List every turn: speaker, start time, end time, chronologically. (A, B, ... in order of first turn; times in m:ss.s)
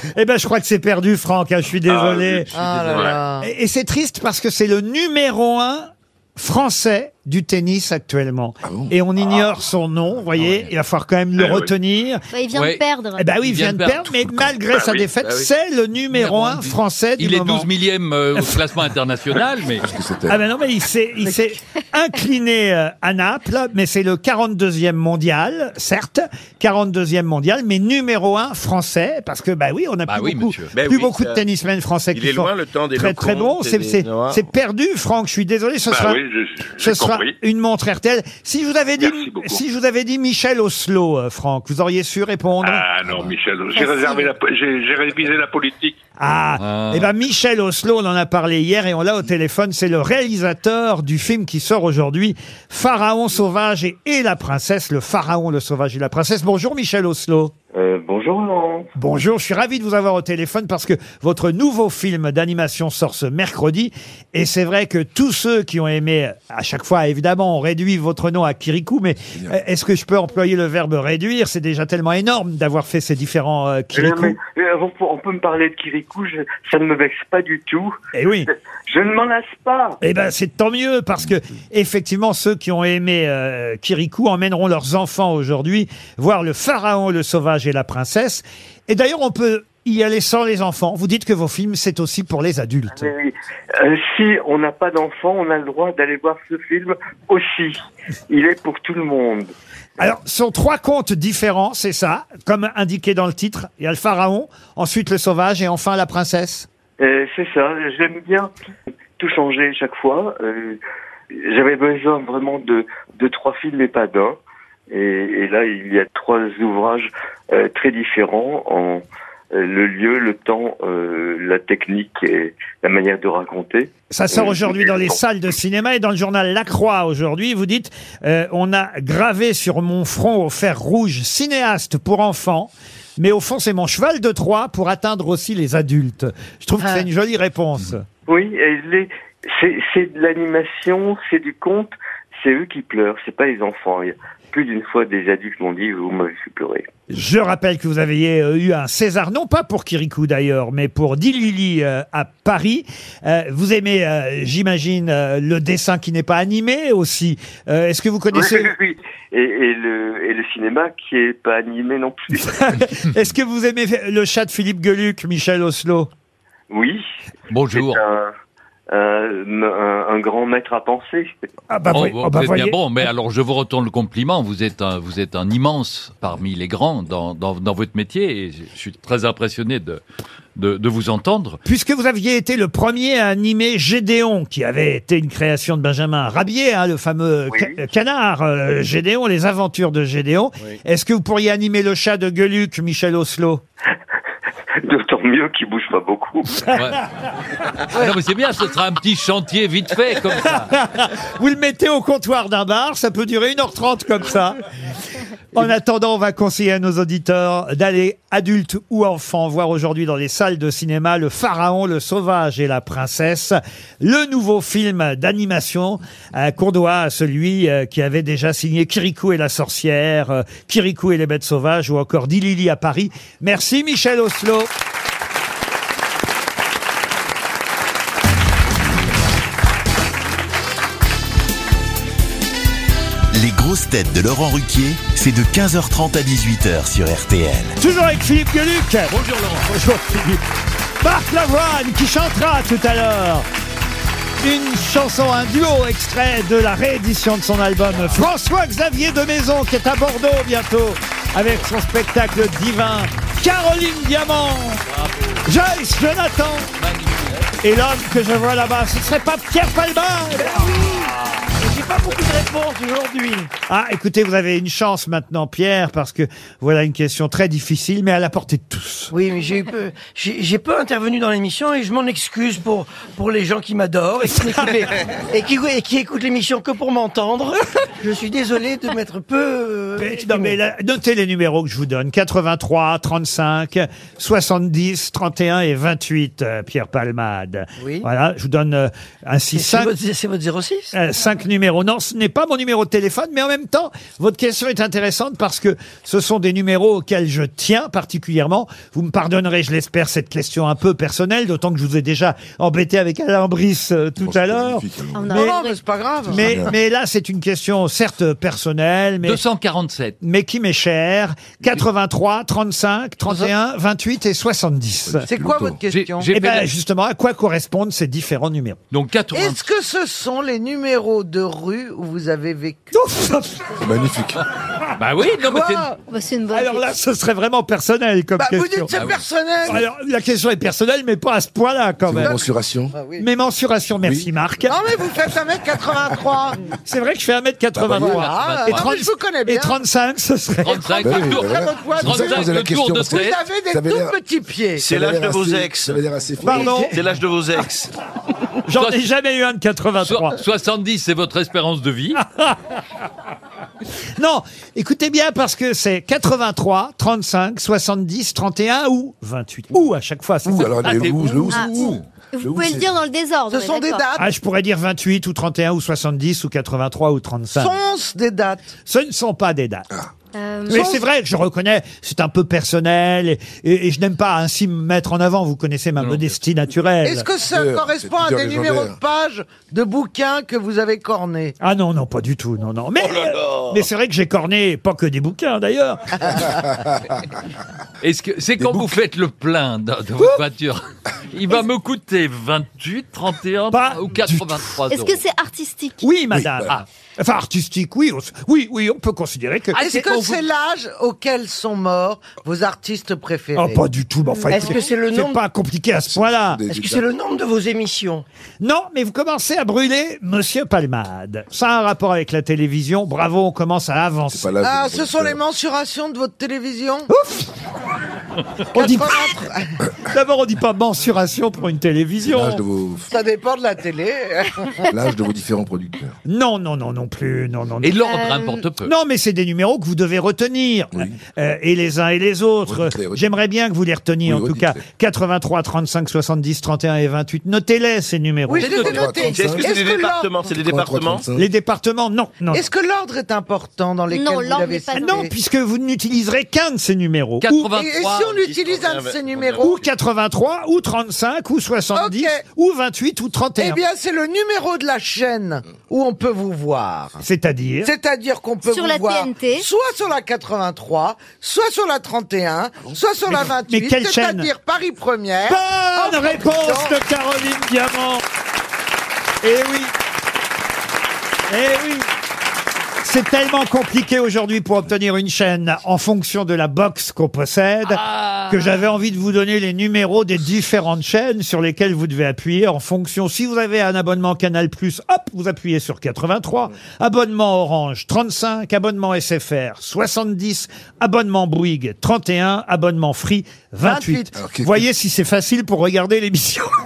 0:00.1-0:02.5 A
0:01.8-0:03.2 B
0:02.5-0:03.5 C
0:03.4-0:12.2 A
0:08.6-0:08.9 D
0:10.4-0:10.7 E
0:11.4-0:11.7 B
0:12.3-0:13.2 F
0:12.5-0:12.8 E
0:13.2-0:17.7 A
0:13.4-0:14.6 E
0:14.7-0:15.1 B
0:15.2-0:15.5 G
0:16.1-0:19.9 E
0:19.8-0:20.4 D
0:20.3-0:36.2 A
0:30.1-0:30.8 E
0:30.7-0:31.4 G
0:32.1-0:34.4 G
0:35.9-0:37.4 B
0:36.8-0:42.8 A
0:39.0-0:39.6 B
0:42.6-0:46.0 B
0:43.7-0:44.3 F
0:46.2-0:57.5 A
0:46.6-0:47.1 E
0:57.7-0:58.9 H
0:59.0-1:14.4 A
1:13.9-1:18.0 H
1:18.1-1:18.5 A
1:18.9-1:20.0 H
1:20.0-1:33.1 A
1:32.9-1:37.8 H
1:38.3-1:39.5 H
1:40.0-1:46.7 A
1:47.0-1:48.5 H
1:49.2-1:50.8 H
1:51.3-1:54.4 H
1:54.9-2:05.2 H
2:04.1-2:18.0 A
2:18.3-2:26.8 H
2:27.1-2:38.7 A
2:38.3-2:42.5 H
2:42.4-2:46.1 A
2:46.7-2:47.0 H
2:47.5-2:48.0 E
2:47.7-2:48.3 H
2:48.9-2:51.3 H
2:51.7-2:52.8 A
2:51.9-3:00.0 E
3:00.6-3:01.6 E
3:01.6-3:13.6 A
3:07.5-3:07.8 H
3:14.8-3:16.7 H
3:16.7-3:17.0 E
3:17.9-3:20.7 E
3:20.4-3:24.6 A
3:25.5-3:44.7 A
3:53.3-3:57.8 I
3:57.8-3:59.1 A
3:59.1-3:59.7 E
3:59.6-4:00.4 A
4:01.0-4:03.4 A
4:04.4-4:14.8 A
4:14.9-4:15.4 E
4:15.4-4:16.7 A
4:16.8-4:17.5 E
4:17.6-4:20.8 A
4:20.5-4:23.5 J
4:23.7-4:29.1 A
4:29.1-4:40.6 J
4:40.0-4:49.9 A
4:49.5-4:50.9 J
4:50.9-5:05.6 A
5:04.2-5:05.4 D
5:05.1-5:05.8 F
5:05.3-5:06.7 C
5:06.3-5:06.7 D
5:06.3-5:09.4 A
5:09.2-5:10.2 E
5:10.2-5:15.3 A
5:15.0-5:15.8 D
5:15.2-5:16.3 C
5:15.9-5:16.7 E
5:16.3-5:18.8 A
5:18.9-5:19.6 E
5:19.3-5:22.9 C
5:22.9-5:23.7 A
5:23.8-5:24.4 D
5:25.0-5:25.9 E
5:25.2-5:25.9 C
5:26.1-5:26.8 F
5:26.5-5:28.9 A
5:28.4-5:29.8 C
5:28.9-5:29.2 E
5:29.6-5:32.3 A
5:32.0-5:32.9 D
5:32.2-5:33.2 C
5:33.2-5:34.8 A
5:34.0-5:34.3 D
5:34.7-5:36.6 C
5:36.8-5:40.9 A
5:37.7-5:38.2 D
5:37.9-5:39.8 C
5:38.2-5:38.9 E
5:40.6-5:43.4 E
5:41.0-5:44.9 C
5:41.0-5:44.2 D
5:44.8-5:46.0 G
5:44.8-5:46.8 D
5:46.4-5:47.0 A
5:46.5-5:46.9 C
5:46.8-5:47.9 G
5:48.6-5:50.4 A
5:50.0-5:52.2 E
5:52.1-5:52.6 A
5:54.2-6:01.0 A
6:00.4-6:03.0 D
6:00.8-6:01.2 E
6:01.5-6:04.1 F
6:03.5-6:04.2 C
6:04.2-6:07.7 A
6:07.6-6:08.7 C
6:08.8-6:09.9 A
6:10.3-6:11.0 F
6:10.7-6:17.2 A
6:16.0-6:16.3 E
6:17.0-6:21.6 C
6:17.5-6:19.0 D
6:21.6-6:26.5 A
6:23.4-6:23.7 G
6:28.0-6:35.2 E
6:28.6-6:29.0 D
6:33.7-6:34.7 A
6:34.9-6:36.0 F
6:36.0-6:39.8 A
6:36.3-6:36.7 D
6:39.7-6:40.4 E
6:39.8-6:43.8 C
6:43.6-6:46.6 A
6:44.4-6:44.9 F
6:44.5-6:44.9 C
6:44.6-6:45.4 J
6:46.1-6:47.0 D
6:46.7-6:48.2 J
6:48.6-6:54.5 A
6:54.3-6:55.4 D
6:54.6-6:57.1 C
6:57.1-6:57.5 A
6:58.7-6:59.7 C
6:58.7-6:59.2 A
7:00.1-7:02.6 A
7:02.2-7:03.1 D
7:03.1-7:04.8 C
7:04.9-7:06.2 D
7:06.2-7:08.0 A
7:07.8-7:08.9 E
7:08.0-7:08.6 F
7:08.8-7:19.1 A
7:10.9-7:11.2 D
7:12.7-7:13.2 D
7:14.2-7:14.8 D
7:18.5-7:20.4 C
7:18.6-7:18.9 E
7:18.6-7:19.7 D
7:19.1-7:21.2 G
7:20.4-7:21.5 D
7:21.3-7:22.6 A
7:22.5-7:25.3 C
7:24.1-7:25.3 F
7:24.9-7:27.7 A
7:27.4-7:28.4 E
7:27.7-7:29.8 C
7:28.3-7:29.7 G
7:29.6-7:33.8 A
7:31.9-7:32.4 C
7:33.6-7:37.2 C
7:37.2-7:37.9 A
7:37.8-7:47.0 C
7:38.7-7:39.7 F
7:43.3-7:44.5 A
7:45.5-7:48.2 A
7:49.4-7:49.9 A
7:51.5-7:52.1 A
7:53.0-8:16.7 A
7:57.9-7:58.5 E
8:13.8-8:14.3 C
8:14.3-8:14.8 D